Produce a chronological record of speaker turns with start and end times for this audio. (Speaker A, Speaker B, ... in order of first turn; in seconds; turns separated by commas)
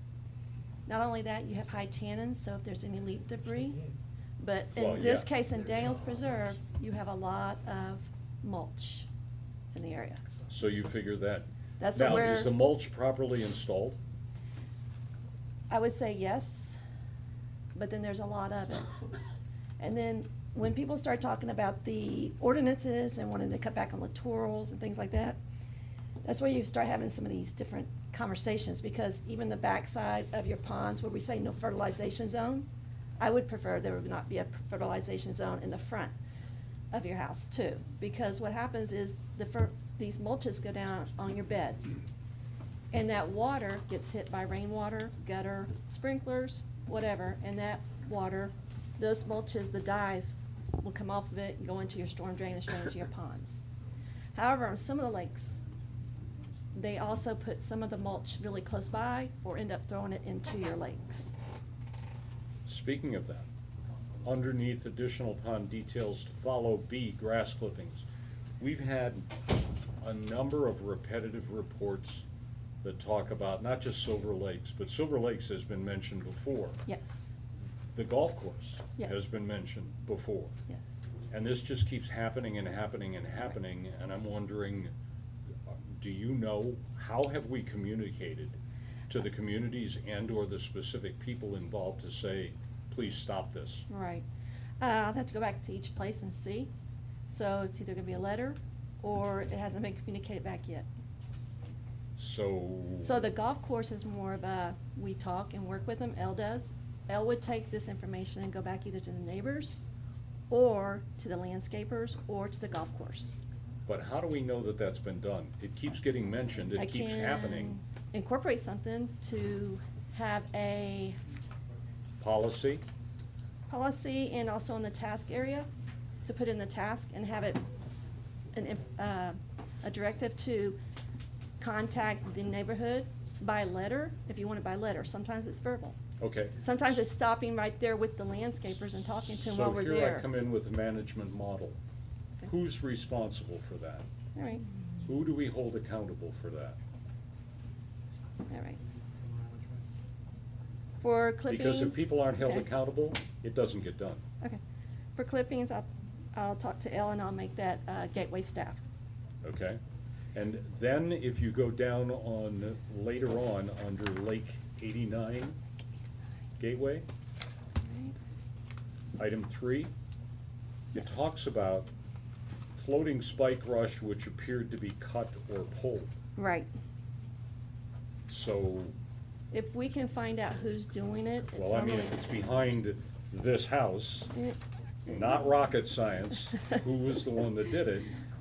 Speaker A: 0.9-3.9, Speaker A: 4.4-9.1, Speaker B: 4.8-5.3, Speaker A: 9.7-10.2, Speaker B: 10.5-14.0, Speaker A: 11.8-12.5, Speaker A: 15.7-16.8, Speaker A: 17.8-18.9, Speaker A: 19.8-25.4, Speaker A: 26.2-32.7, Speaker A: 33.2-36.1, Speaker A: 36.9-42.0, Speaker A: 42.9-53.6, Speaker A: 54.4-55.7, Speaker A: 56.8-61.4, Speaker B: 62.7-63.5, Speaker B: 64.2-68.0, Speaker B: 68.6-69.3, Speaker B: 70.0-72.2, Speaker B: 72.8-76.8, Speaker A: 76.9-77.3, Speaker B: 77.9-80.5, Speaker A: 79.0-79.3, Speaker A: 80.7-81.0, Speaker B: 81.3-84.9, Speaker B: 85.7-88.6, Speaker B: 89.1-93.9, Speaker A: 93.9-94.2, Speaker A: 94.8-96.7, Speaker A: 97.3-100.9, Speaker B: 102.2-103.2, Speaker A: 103.0-109.8, Speaker A: 110.5-113.4, Speaker B: 113.9-117.8, Speaker A: 116.8-121.2, Speaker B: 122.2-122.8, Speaker A: 123.7-125.7, Speaker A: 126.2-127.6, Speaker A: 128.5-130.8, Speaker A: 131.6-136.0, Speaker B: 136.2-136.7, Speaker A: 136.6-140.3, Speaker B: 139.4-141.8, Speaker B: 142.4-144.1, Speaker A: 144.3-144.6, Speaker B: 145.1-146.8, Speaker A: 148.5-148.8, Speaker A: 151.0-152.7, Speaker B: 151.5-154.2, Speaker A: 155.2-158.8, Speaker B: 159.4-159.8, Speaker B: 160.3-165.6, Speaker B: 166.6-167.1, Speaker A: 167.8-168.2, Speaker B: 169.2-169.9, Speaker B: 170.9-171.9, Speaker B: 172.8-176.1, Speaker A: 176.4-176.7, Speaker B: 178.3-178.9, Speaker A: 179.5-182.2, Speaker B: 181.6-184.3, Speaker B: 185.1-188.1